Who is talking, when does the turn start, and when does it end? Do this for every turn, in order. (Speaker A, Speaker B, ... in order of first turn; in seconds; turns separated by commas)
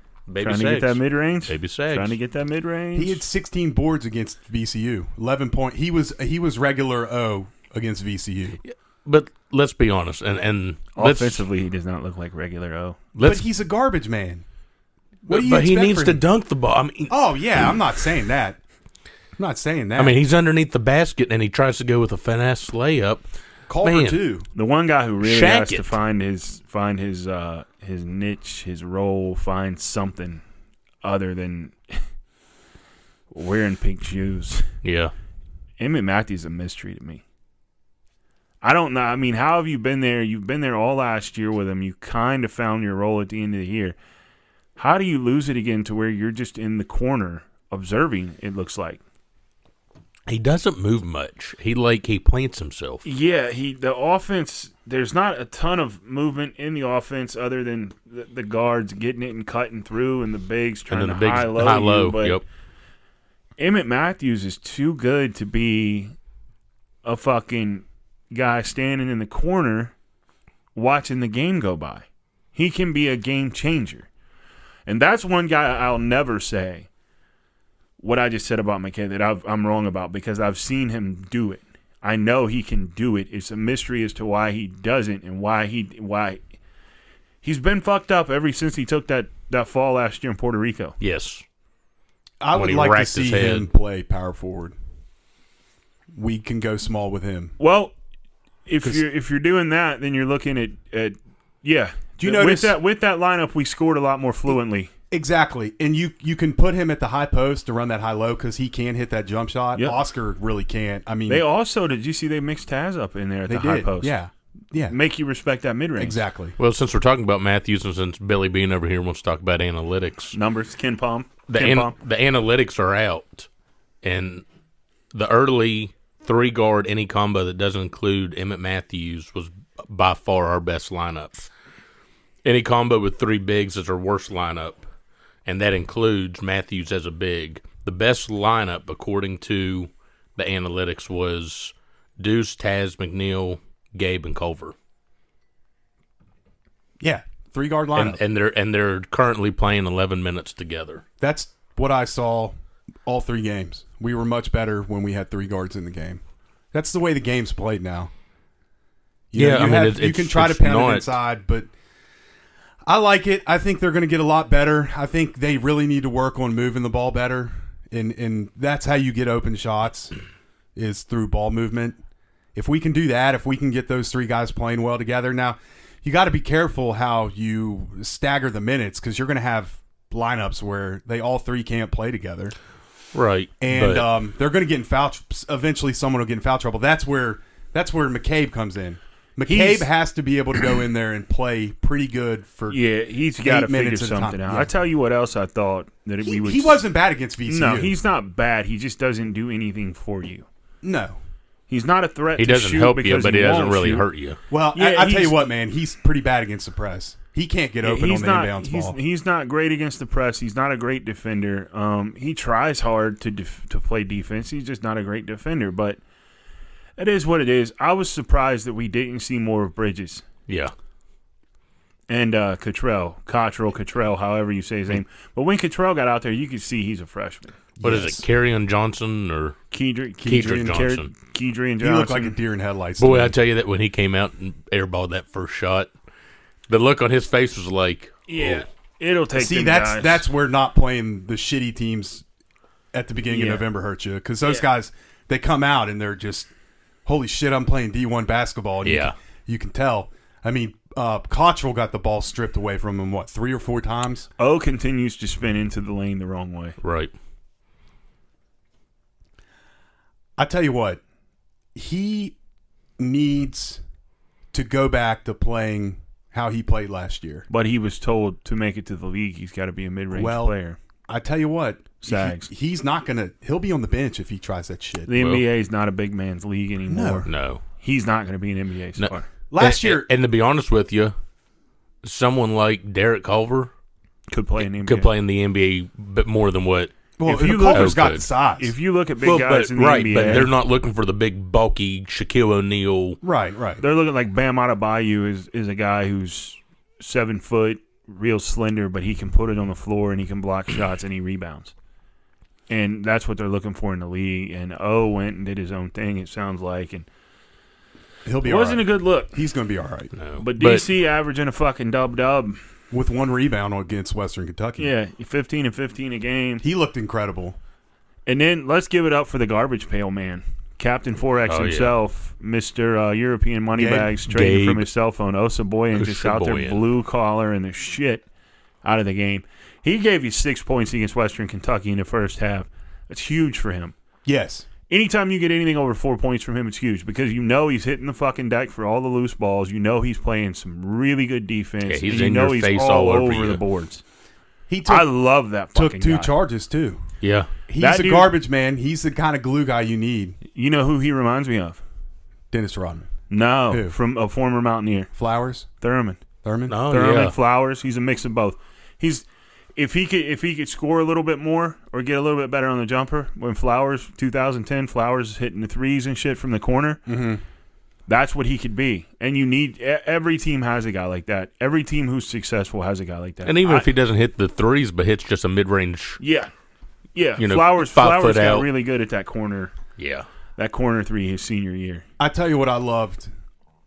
Speaker A: 0.3-2.2, Speaker B: 0.4-3.2, Speaker C: 2.9-8.6, Speaker A: 8.7-11.4, Speaker B: 10.9-13.0, Speaker A: 13.2-13.4, Speaker C: 13.2-14.4, Speaker C: 15.3-16.2, Speaker A: 15.3-17.8, Speaker C: 17.1-18.6, Speaker C: 19.4-20.2, Speaker A: 20.0-23.2, Speaker C: 23.7-24.4, Speaker A: 23.8-24.2, Speaker B: 24.6-30.4, Speaker A: 25.2-25.9, Speaker B: 31.0-32.0, Speaker B: 33.3-34.7, Speaker A: 34.8-35.1, Speaker B: 35.8-37.2, Speaker B: 38.6-44.0, Speaker B: 44.8-49.0, Speaker A: 50.3-53.0, Speaker B: 53.0-62.4, Speaker A: 60.9-62.4, Speaker B: 63.6-66.1, Speaker B: 67.0-69.9, Speaker B: 70.8-74.1, Speaker B: 74.9-76.9, Speaker B: 78.0-86.4, Speaker B: 87.4-91.0, Speaker A: 91.0-91.4, Speaker C: 92.4-94.8, Speaker A: 92.5-93.7, Speaker C: 96.2-97.5, Speaker B: 97.6-97.9, Speaker B: 98.7-104.9, Speaker C: 102.2-102.8, Speaker C: 105.1-111.5, Speaker B: 109.8-110.0, Speaker B: 111.3-114.2, Speaker C: 113.5-115.0, Speaker B: 114.9-116.2, Speaker C: 116.0-116.6, Speaker A: 116.6-120.4, Speaker B: 120.3-121.9, Speaker A: 121.5-123.5, Speaker A: 124.0-124.4, Speaker A: 125.1-131.5, Speaker A: 132.4-134.8, Speaker A: 135.5-144.8, Speaker C: 147.0-148.2, Speaker A: 147.9-151.0, Speaker C: 151.2-152.6, Speaker C: 153.1-156.2, Speaker C: 156.7-158.1, Speaker C: 159.3-161.7, Speaker A: 159.3-161.1, Speaker C: 162.8-170.1, Speaker C: 170.8-172.0, Speaker C: 172.6-182.6, Speaker A: 183.1-184.1, Speaker C: 183.6-192.8, Speaker B: 189.5-189.9, Speaker B: 192.7-196.8, Speaker C: 193.4-194.7, Speaker C: 196.2-197.9, Speaker B: 197.5-200.5, Speaker C: 200.8-201.2, Speaker B: 201.7-204.1, Speaker A: 202.4-204.4, Speaker C: 204.5-209.0, Speaker B: 204.7-205.4, Speaker B: 207.8-216.0, Speaker B: 217.0-220.2, Speaker A: 220.5-220.7, Speaker B: 222.1-227.6, Speaker C: 227.8-228.3, Speaker A: 227.8-229.6, Speaker B: 229.7-232.4, Speaker A: 230.2-231.1, Speaker C: 230.3-230.8, Speaker C: 231.8-233.3, Speaker A: 233.0-235.9, Speaker A: 236.7-238.7, Speaker B: 238.3-240.3, Speaker C: 239.3-242.2, Speaker C: 242.9-246.5, Speaker B: 243.3-243.7, Speaker C: 247.1-254.3, Speaker A: 248.8-249.2, Speaker B: 254.4-256.8, Speaker A: 256.8-257.1, Speaker C: 260.4-261.0, Speaker C: 261.8-262.4, Speaker C: 263.0-263.8, Speaker C: 264.5-267.5, Speaker B: 267.5-270.8, Speaker C: 270.1-270.6, Speaker C: 271.1-275.2, Speaker B: 272.0-272.5, Speaker B: 275.1-279.3, Speaker A: 275.1-275.4, Speaker C: 276.9-277.3, Speaker A: 277.3-277.6, Speaker A: 279.0-281.1, Speaker C: 279.5-280.1, Speaker A: 282.0-283.7, Speaker B: 284.3-285.1, Speaker A: 284.6-286.9, Speaker C: 287.2-288.7, Speaker B: 287.2-290.5, Speaker A: 287.7-288.2, Speaker A: 289.2-293.2, Speaker C: 293.2-293.8, Speaker B: 293.8-301.7, Speaker B: 302.7-307.1, Speaker C: 308.2-310.1, Speaker B: 308.4-309.4, Speaker A: 310.1-310.9, Speaker B: 310.4-312.6, Speaker C: 312.9-314.9, Speaker B: 314.8-316.6, Speaker C: 316.6-317.6, Speaker B: 318.3-328.2, Speaker A: 321.5-321.9, Speaker C: 323.8-324.2, Speaker A: 324.3-324.9, Speaker A: 325.9-326.8, Speaker B: 328.8-333.9, Speaker C: 334.3-334.7, Speaker B: 334.9-344.0, Speaker A: 341.8-343.6, Speaker C: 344.7-345.1, Speaker B: 344.9-346.3, Speaker C: 345.7-347.0, Speaker A: 347.2-347.5, Speaker C: 347.7-350.4, Speaker B: 347.8-348.3, Speaker B: 350.5-351.8, Speaker C: 352.5-353.1, Speaker B: 353.3-355.1, Speaker C: 353.7-353.9, Speaker C: 355.2-355.7, Speaker B: 355.8-356.2, Speaker C: 356.4-356.8, Speaker A: 356.7-357.4, Speaker B: 356.9-359.2, Speaker B: 359.8-367.0, Speaker C: 367.1-367.4, Speaker B: 368.1-373.9, Speaker A: 373.4-376.2, Speaker B: 376.2-376.5, Speaker B: 377.1-379.7, Speaker A: 377.4-378.7, Speaker A: 380.0-380.3, Speaker B: 380.6-382.1, Speaker C: 382.2-383.3